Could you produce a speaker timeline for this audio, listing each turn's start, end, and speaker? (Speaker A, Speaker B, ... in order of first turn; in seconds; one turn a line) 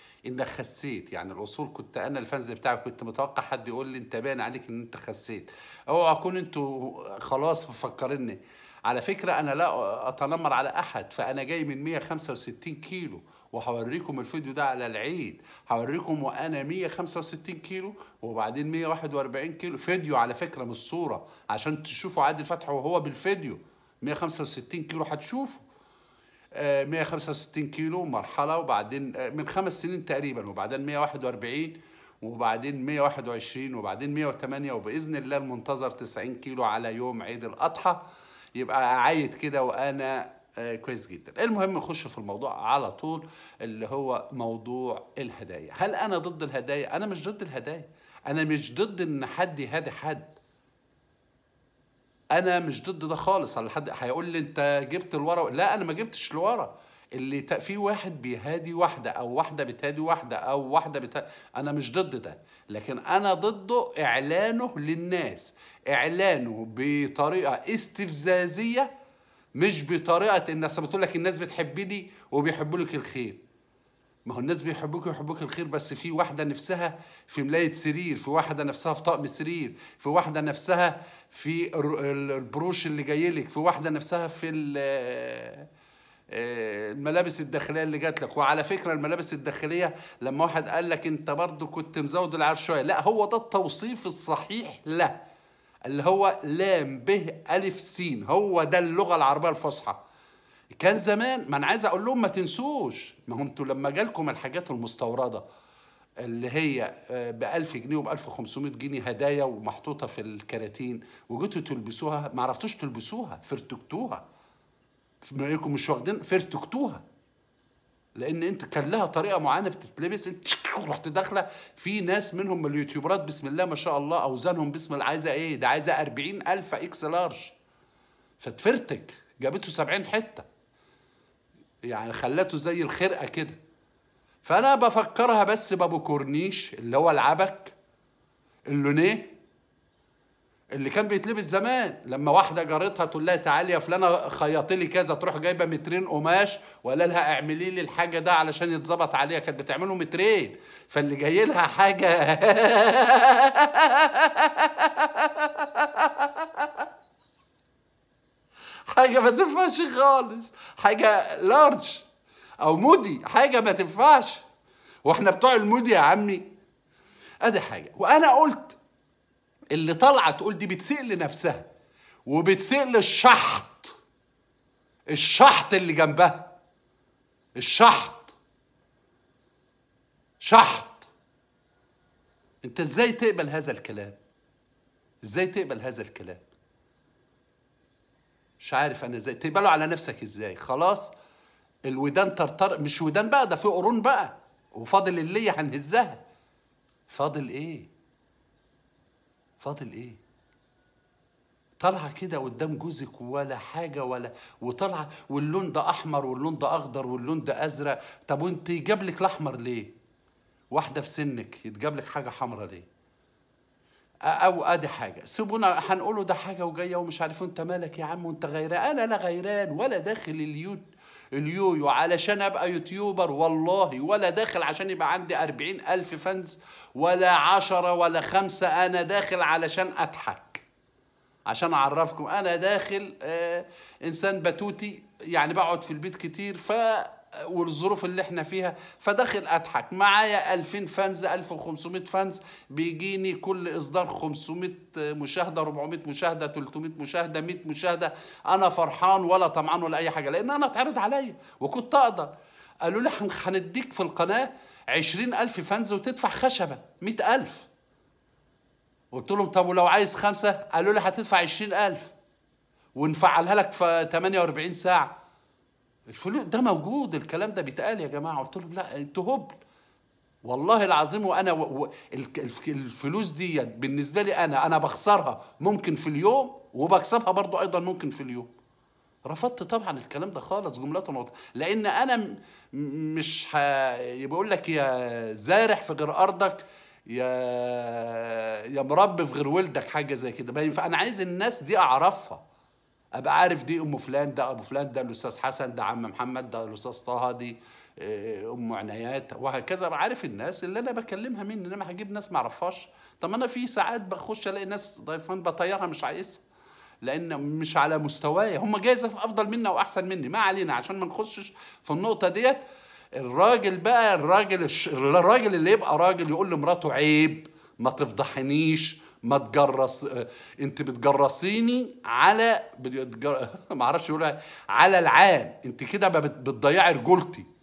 Speaker A: 0.3-25.6
Speaker A: 26.6-38.0
Speaker A: 38.5-50.4
Speaker A: 52.3-68.9
Speaker A: 69.6-73.4
Speaker A: 74.3-85.7
Speaker A: 86.3-95.2
Speaker A: 95.8-100.0
Speaker A: 100.7-105.4
Speaker A: 106.2-114.2
Speaker A: 115.2-117.0
Speaker A: 118.2-127.5
Speaker A: 128.4-130.5
Speaker A: 131.9-133.6
Speaker A: 134.4-137.8
Speaker A: 138.7-139.3
Speaker A: 140.8-156.9
Speaker A: 158.9-162.1
Speaker A: 162.6-164.4
Speaker A: 165.1-166.4
Speaker A: 167.4-168.8
Speaker A: 169.7-171.7
Speaker A: 172.3-173.9
Speaker A: 175.1-176.5
Speaker A: 177.6-178.3
Speaker A: 180.4-181.1
Speaker A: 182.6-184.2
Speaker A: 185.2-186.4
Speaker A: 188.6-191.1
Speaker A: 191.9-196.2
Speaker A: 197.1-197.9
Speaker A: 199.6-200.2
Speaker A: 201.8-209.9
Speaker A: 210.7-212.9
Speaker A: 214.3-230.6
Speaker A: 231.5-252.3
Speaker A: 252.8-257.7
Speaker A: 259.1-262.1
Speaker A: 263.0-265.1
Speaker A: 266.1-269.6
Speaker A: 270.4-278.5
Speaker A: 279.2-292.4
Speaker A: 293.2-306.4
Speaker A: 307.0-312.6
Speaker A: 313.2-327.5